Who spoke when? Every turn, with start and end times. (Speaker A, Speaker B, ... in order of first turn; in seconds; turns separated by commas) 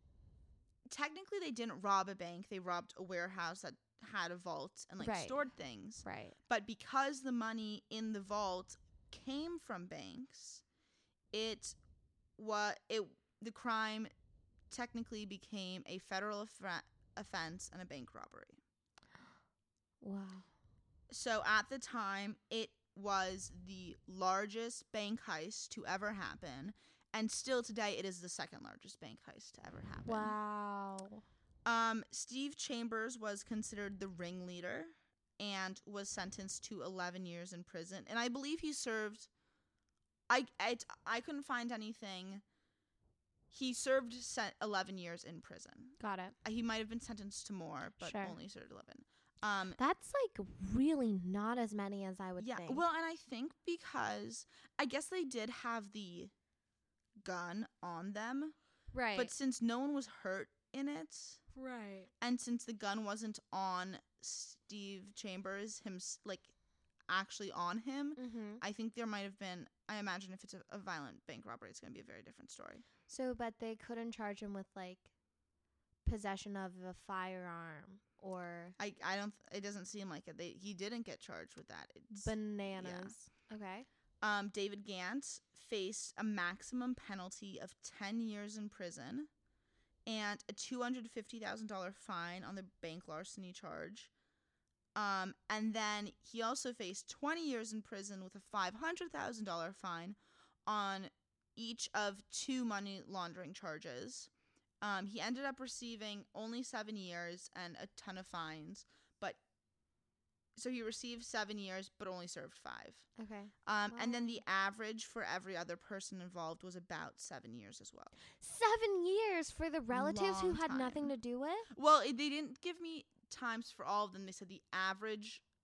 Speaker A: 0.9-10.6, Speaker B: 5.0-5.5, Speaker B: 6.0-6.4, Speaker A: 11.3-11.8, Speaker A: 12.4-14.1, Speaker A: 14.7-18.6, Speaker B: 20.0-20.5, Speaker A: 21.1-30.4, Speaker B: 30.0-31.2, Speaker A: 31.6-39.3, Speaker A: 40.3-42.4, Speaker A: 43.5-49.8, Speaker B: 46.0-46.4, Speaker B: 48.0-48.4, Speaker B: 49.8-52.8, Speaker A: 52.4-56.3, Speaker A: 57.2-58.6, Speaker B: 58.9-59.3, Speaker A: 59.1-61.4, Speaker B: 61.5-62.1, Speaker A: 62.2-66.5, Speaker A: 67.1-72.8, Speaker B: 68.2-68.6, Speaker B: 73.1-75.1, Speaker B: 76.0-78.8, Speaker A: 78.8-83.2, Speaker B: 82.1-83.9, Speaker A: 84.2-89.3, Speaker A: 90.1-94.1, Speaker A: 95.0-104.3, Speaker A: 104.8-109.4, Speaker A: 110.6-113.1, Speaker B: 113.2-114.4, Speaker A: 113.6-118.1, Speaker B: 118.4-121.7, Speaker A: 119.9-121.1, Speaker A: 121.7-125.4